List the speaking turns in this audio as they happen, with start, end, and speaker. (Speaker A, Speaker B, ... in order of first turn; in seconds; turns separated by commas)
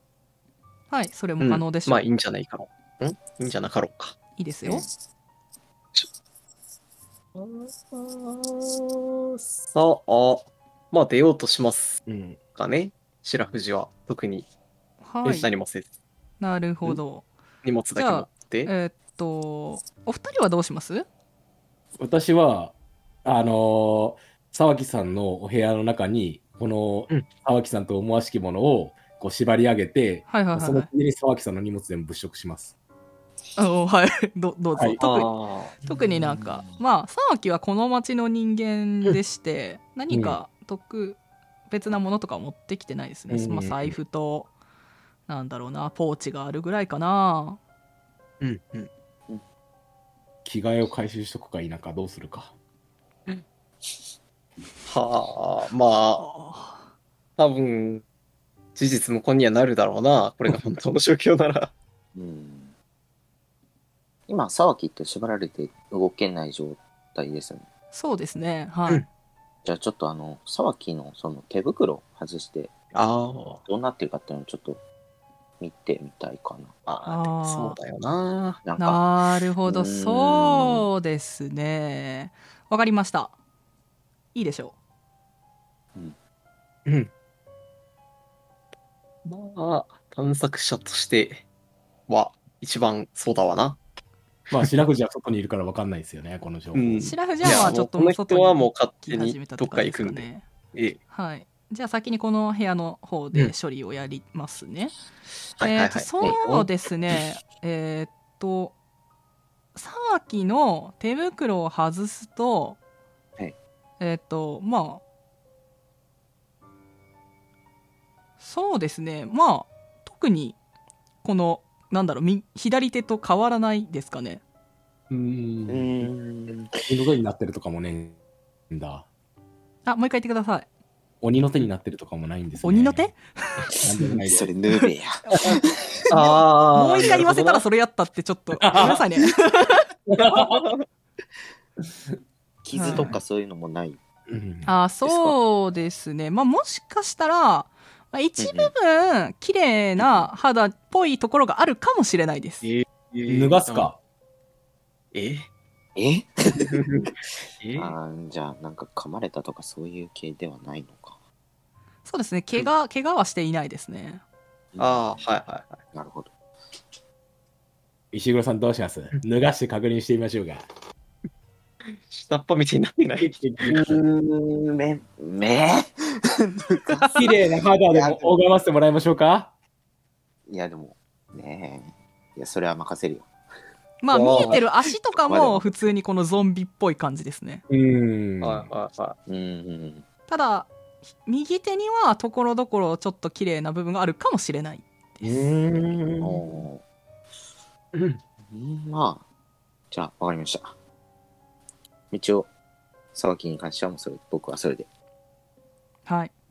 Speaker A: 0.9-2.0, Speaker B: 1.4-4.2, Speaker A: 4.4-4.9, Speaker B: 7.3-12.0, Speaker C: 12.1-12.4, Speaker B: 12.6-14.5, Speaker A: 15.0-15.5, Speaker B: 15.2-15.9, Speaker A: 16.4-17.2, Speaker B: 17.6-18.7, Speaker A: 17.9-21.1, Speaker C: 22.0-22.7, Speaker C: 23.2-32.7, Speaker A: 30.3-30.9, Speaker A: 33.6-35.3, Speaker B: 35.0-35.8, Speaker A: 35.8-44.5, Speaker C: 40.1-40.4, Speaker C: 43.3-44.0, Speaker A: 45.3-47.6, Speaker B: 48.4-48.9, Speaker C: 50.4-52.5, Speaker B: 54.9-56.2, Speaker A: 56.2-56.9, Speaker B: 57.4-58.0, Speaker B: 58.8-61.7, Speaker D: 62.1-62.7, Speaker D: 64.3-67.7, Speaker A: 67.9-69.0, Speaker D: 69.6-72.7, Speaker B: 72.9-73.6, Speaker D: 73.6-74.8, Speaker D: 75.6-76.7, Speaker B: 76.8-78.6, Speaker A: 77.0-77.8, Speaker D: 78.6-79.0, Speaker A: 78.8-83.3, Speaker D: 79.6-80.9, Speaker A: 84.3-84.7, Speaker B: 86.8-87.1, Speaker B: 89.2-91.4, Speaker B: 92.1-93.8, Speaker C: 94.5-97.8, Speaker B: 96.7-101.0, Speaker A: 97.0-100.4, Speaker A: 101.1-104.9, Speaker B: 105.6-106.7, Speaker A: 105.6-108.7, Speaker A: 109.7-112.8, Speaker A: 114.0-115.0, Speaker A: 118.4-120.6, Speaker A: 121.2-124.4, Speaker C: 125.1-126.1, Speaker D: 125.7-126.9, Speaker C: 126.8-128.2, Speaker C: 128.7-129.1, Speaker A: 129.8-130.7, Speaker C: 131.2-133.1, Speaker A: 132.6-133.7, Speaker C: 133.8-134.5, Speaker D: 134.2-136.0, Speaker B: 136.1-137.6, Speaker A: 136.2-139.9, Speaker C: 138.6-139.1, Speaker C: 140.1-140.7, Speaker B: 140.2-140.8, Speaker D: 142.6-144.0, Speaker A: 142.7-143.1, Speaker C: 144.3-144.7, Speaker A: 144.6-152.7, Speaker D: 148.4-148.7, Speaker D: 150.0-150.2, Speaker B: 152.6-153.9, Speaker C: 153.3-154.0, Speaker B: 155.1-155.5, Speaker D: 155.9-157.1, Speaker B: 156.7-157.9, Speaker D: 157.8-161.2, Speaker A: 162.1-164.2, Speaker D: 164.7-165.2, Speaker B: 164.8-165.8, Speaker D: 165.9-166.3, Speaker C: 168.1-170.6, Speaker B: 171.9-173.4, Speaker C: 173.2-174.0, Speaker D: 173.7-175.9, Speaker D: 176.4-178.4, Speaker C: 177.1-179.5, Speaker D: 180.5-183.3, Speaker A: 184.0-187.6, Speaker B: 184.1-184.6, Speaker D: 185.2-185.9, Speaker C: 187.7-188.7, Speaker B: 188.4-189.2, Speaker D: 189.3-190.1, Speaker A: 190.3-194.8, Speaker C: 195.2-196.7, Speaker D: 196.2-196.8, Speaker B: 197.9-198.2, Speaker D: 198.4-199.2, Speaker D: 199.9-200.8, Speaker D: 202.1-202.5, Speaker D: 203.1-204.9, Speaker A: 206.1-206.3